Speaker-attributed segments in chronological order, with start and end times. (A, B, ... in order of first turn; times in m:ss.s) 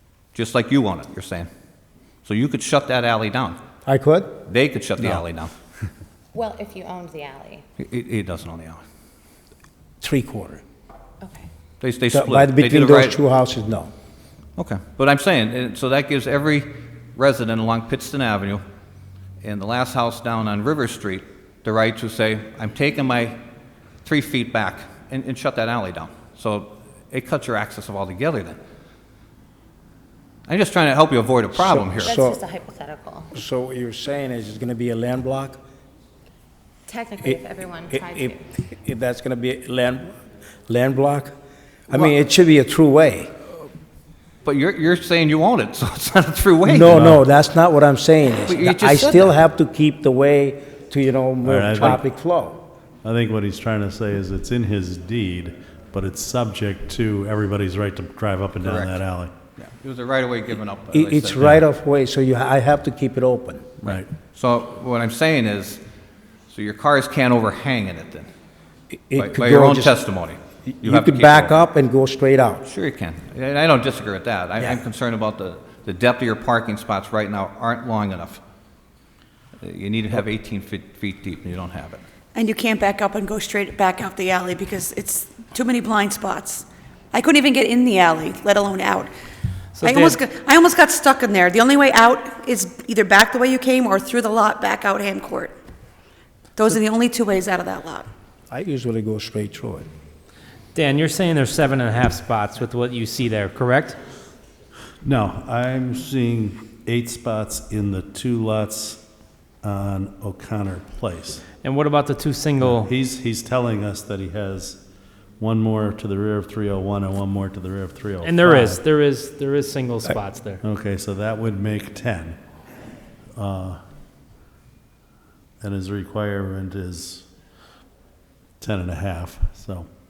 0:00.3-0:01.5 A
0:02.2-0:03.6 A
0:03.8-0:04.4 B
0:04.5-0:05.5 A
0:06.3-0:07.6 C
0:07.8-0:08.8 A
0:10.0-0:10.6 B
0:11.2-0:11.5 C
0:11.8-0:13.2 A
0:12.1-0:13.9 B
0:14.6-0:18.6 A
0:19.4-0:23.4 A
0:24.0-0:28.6 A
0:30.5-0:32.2 A
0:31.6-0:32.4 B
0:32.0-0:33.3 C
0:33.3-0:35.6 B
0:36.9-0:38.4 C
0:37.2-0:40.2 B
0:40.7-0:41.3 B
0:41.9-0:43.3 B
0:44.4-0:47.0 A
0:46.6-0:52.6 B
0:48.4-0:49.3 A
0:51.4-0:52.0 D
0:53.0-0:59.4 D
0:58.6-0:59.0 A
0:59.6-1:01.5 A
1:00.9-1:03.7 B
1:03.8-1:05.8 A
1:06.5-1:08.3 A
1:08.9-1:10.0 B
1:09.2-1:11.6 A
1:10.7-1:12.6 B
1:12.6-1:18.4 A
1:19.6-1:22.0 A
1:22.3-1:29.1 E
1:29.8-1:30.2 F
1:29.8-1:35.5 E
1:36.5-1:38.1 E
1:38.5-1:39.9 B
1:40.7-1:44.0 F
1:45.0-1:49.0 D
1:49.6-1:51.5 D
1:51.6-1:52.9 F
1:52.6-1:54.8 D
1:55.4-1:58.7 D
1:58.2-2:00.6 F
2:00.6-2:02.4 D
2:03.4-2:03.8 D
2:05.6-2:07.3 D
2:08.6-2:09.9 D